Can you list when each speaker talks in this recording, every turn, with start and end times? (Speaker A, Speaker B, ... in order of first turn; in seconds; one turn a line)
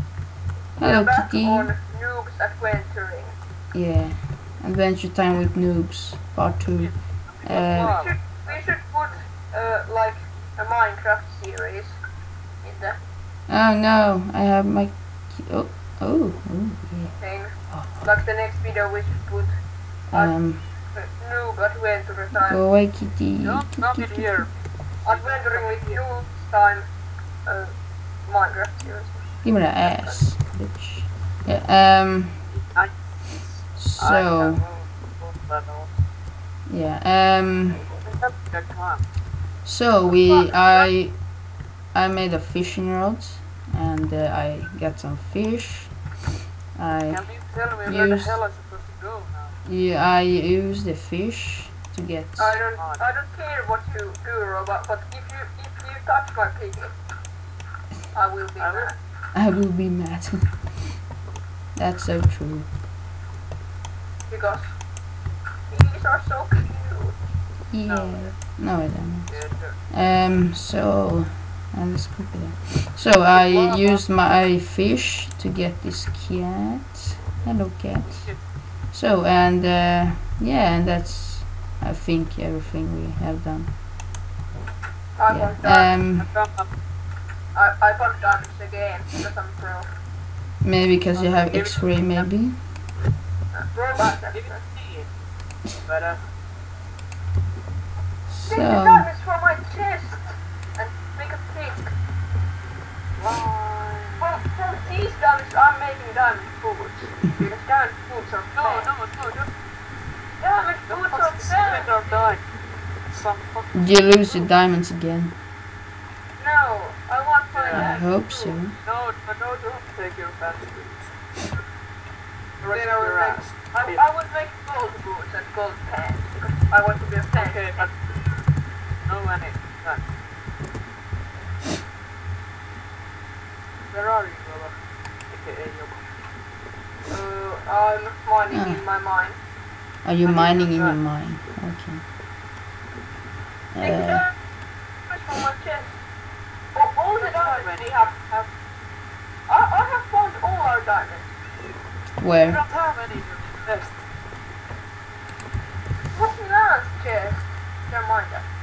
Speaker A: 0.8-1.7
Speaker B: 0.8-3.4
Speaker A: 3.7-8.0
Speaker C: 6.7-8.8
Speaker B: 7.4-12.0
Speaker B: 12.6-13.0
Speaker A: 13.5-18.2
Speaker B: 17.2-22.8
Speaker A: 20.1-20.7
Speaker A: 22.4-24.5
Speaker C: 23.4-26.2
Speaker B: 25.0-26.9
Speaker B: 27.4-30.3
Speaker A: 29.4-32.5
Speaker C: 32.5-35.9
Speaker A: 33.8-34.7
Speaker A: 36.7-38.0
Speaker C: 38.0-39.1
Speaker A: 39.6-46.2
Speaker C: 40.2-40.9
Speaker A: 46.7-48.4
Speaker C: 47.1-49.6
Speaker A: 49.6-52.6
Speaker B: 52.4-56.9
Speaker C: 52.8-53.1
Speaker B: 58.1-59.0
Speaker C: 58.6-58.9
Speaker A: 59.3-61.0
Speaker A: 61.8-62.7
Speaker B: 64.3-64.8
Speaker B: 65.7-67.2
Speaker A: 67.7-83.8
Speaker C: 67.9-68.3
Speaker C: 69.3-69.9
Speaker C: 73.3-74.0
Speaker C: 78.1-78.4
Speaker B: 85.2-86.0
Speaker A: 85.3-86.3
Speaker C: 86.2-86.7
Speaker B: 87.5-89.9
Speaker A: 90.6-92.7
Speaker C: 91.1-92.3
Speaker B: 93.5-94.6
Speaker C: 93.9-95.1
Speaker C: 95.7-96.3
Speaker A: 98.3-99.1
Speaker B: 98.5-102.0
Speaker C: 103.2-104.3
Speaker B: 104.2-108.9
Speaker C: 108.5-109.6
Speaker B: 110.4-112.3
Speaker C: 110.9-114.5
Speaker A: 113.7-115.4
Speaker B: 116.4-118.6
Speaker C: 117.5-118.0
Speaker A: 117.7-118.8
Speaker C: 118.8-121.2
Speaker C: 122.6-124.0
Speaker B: 122.7-127.9
Speaker C: 127.3-128.2
Speaker C: 129.0-130.1
Speaker C: 133.9-136.1
Speaker B: 137.1-139.4
Speaker A: 138.5-138.8
Speaker A: 140.0-142.1
Speaker C: 140.2-141.0
Speaker A: 143.7-144.2
Speaker B: 143.8-144.3
Speaker B: 145.1-145.9
Speaker B: 146.7-148.4
Speaker C: 147.2-148.4
Speaker B: 149.5-151.3
Speaker A: 152.2-152.6
Speaker C: 152.4-154.1
Speaker B: 156.1-158.5